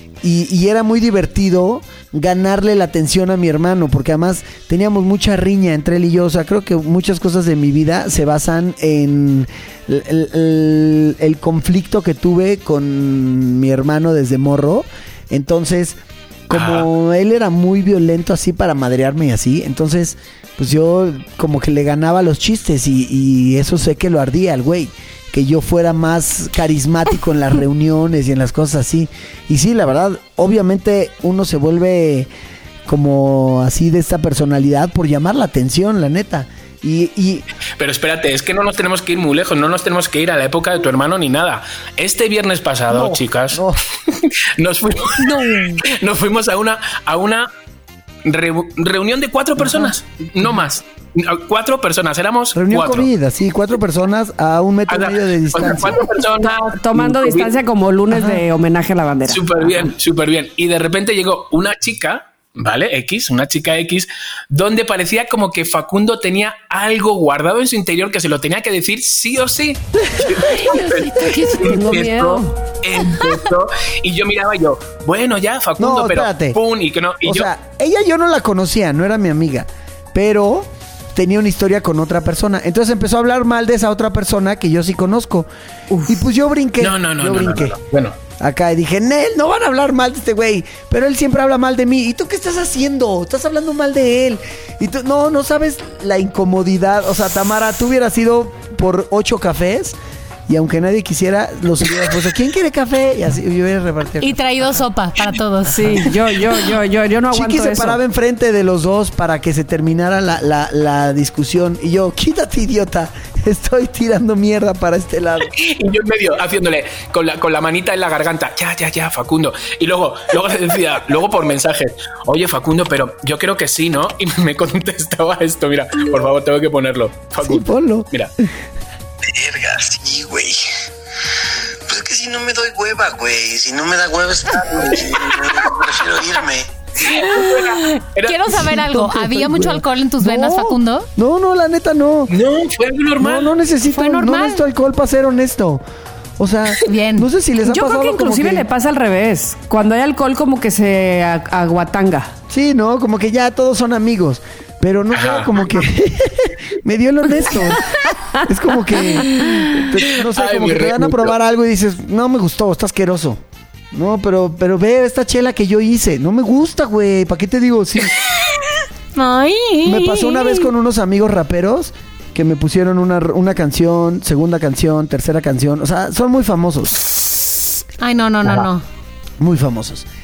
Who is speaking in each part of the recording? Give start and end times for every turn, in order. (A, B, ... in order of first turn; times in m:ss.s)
0:00.2-0:16.0 A
0:16.5-0:32.3 A
0:16.5-0:16.9 B
0:32.8-0:37.4 A
0:37.8-0:43.6 B
0:42.9-0:43.8 A
0:44.6-0:47.5 B
0:48.2-0:53.1 B
0:49.6-0:50.6 A
0:52.5-0:56.0 A
0:54.9-0:57.5 B
0:56.6-0:59.9 C
0:58.1-0:58.4 A
0:59.3-1:17.5 B
1:10.7-1:12.5 C
1:15.8-1:16.6 A
1:17.2-1:25.5 A
1:25.9-1:26.2 C
1:26.1-1:27.7 A
1:26.8-1:28.2 B
1:28.4-1:40.0 A
1:40.5-1:44.8 A
1:44.2-1:46.0 D
1:45.7-1:48.0 C
1:47.3-1:55.5 A
1:55.4-2:08.3 B
2:07.4-2:08.1 A
2:09.3-2:10.6 E
2:11.9-2:16.7 E
2:17.0-2:18.7 B
2:17.1-2:21.1 D
2:18.5-2:22.3 A
2:22.3-2:23.5 B
2:23.2-2:25.8 A
2:23.9-2:24.6 D
2:26.4-2:28.6 A
2:26.8-2:27.3 D
2:27.6-2:32.3 C
2:32.5-2:37.9 A
2:35.1-2:35.5 B
2:38.4-2:43.4 A
2:40.0-2:41.3 B
2:43.9-2:48.1 A
2:49.1-2:50.7 D
2:49.8-2:57.1 A
2:58.0-2:58.8 D
2:59.4-3:00.0 A